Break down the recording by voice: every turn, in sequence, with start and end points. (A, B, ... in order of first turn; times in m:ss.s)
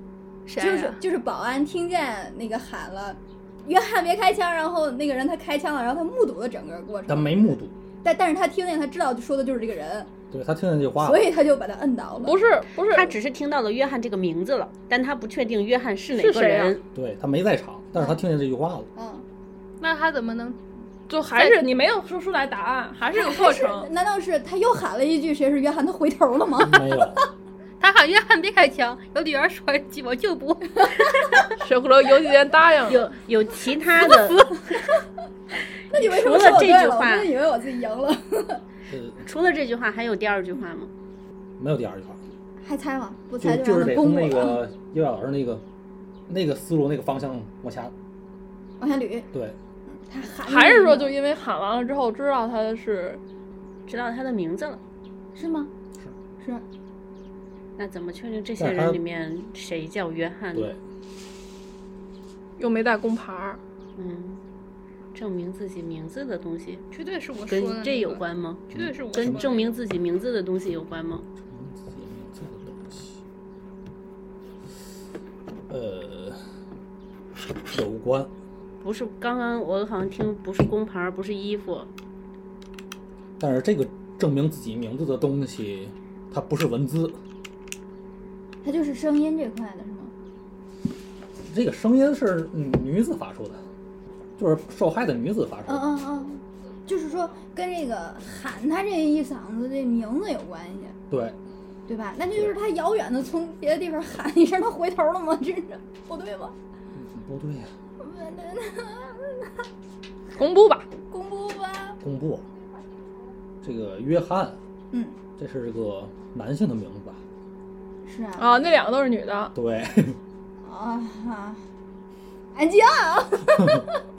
0:00.5-0:01.0 A
0:00.6-0:10.1 B
0:07.1-0:07.8 C
0:10.3-0:11.3 C
0:11.0-0:12.4 B
0:12.2-0:13.1 D
0:12.9-0:16.8 E
0:16.1-0:16.8 D
0:16.9-0:18.9 C
0:19.0-0:19.2 B
0:19.8-0:20.6 A
0:21.1-0:23.9 D
0:21.2-0:21.7 A
0:23.1-0:27.2 B
0:26.6-0:27.2 C
0:27.8-0:31.4 A
0:31.6-0:33.1 D
0:32.9-0:34.6 E
0:35.9-0:38.6 B
0:35.9-0:37.3 E
0:38.9-0:39.2 C
0:39.2-0:40.9 E
0:41.6-0:42.2 C
0:42.6-0:44.6 B
0:43.4-0:45.6 C
0:46.3-0:47.9 C
0:48.8-0:49.3 B
0:49.9-0:51.2 B
0:50.4-0:53.2 D
0:53.9-0:54.8 E
0:55.4-0:55.7 B
0:56.4-0:56.6 B
0:57.8-1:00.8 E
0:58.6-0:59.0 C
1:02.6-1:03.6 D
1:04.0-1:04.4 E
1:05.1-1:06.9 E
1:06.9-1:09.7 A
1:07.5-1:11.2 E
1:08.7-1:09.5 C
1:11.5-1:13.2 C
1:15.7-1:16.4 C
1:17.7-1:18.3 C
1:18.8-1:21.9 E
1:23.4-1:27.2 C
1:28.6-1:30.1 B
1:31.5-1:33.6 C
1:34.4-1:35.9 C
1:35.7-1:41.0 B
1:41.1-1:41.4 C
1:41.9-1:46.6 B
1:47.0-1:47.7 C
1:48.0-1:49.6 B
1:50.3-1:50.9 D
1:51.1-1:52.0 B
1:52.0-1:52.5 C
1:53.6-1:54.6 C
1:55.4-1:57.2 C
1:58.0-1:58.6 B
1:58.4-1:59.5 D
1:59.5-2:00.2 C
2:00.6-2:01.6 B
2:02.5-2:04.0 B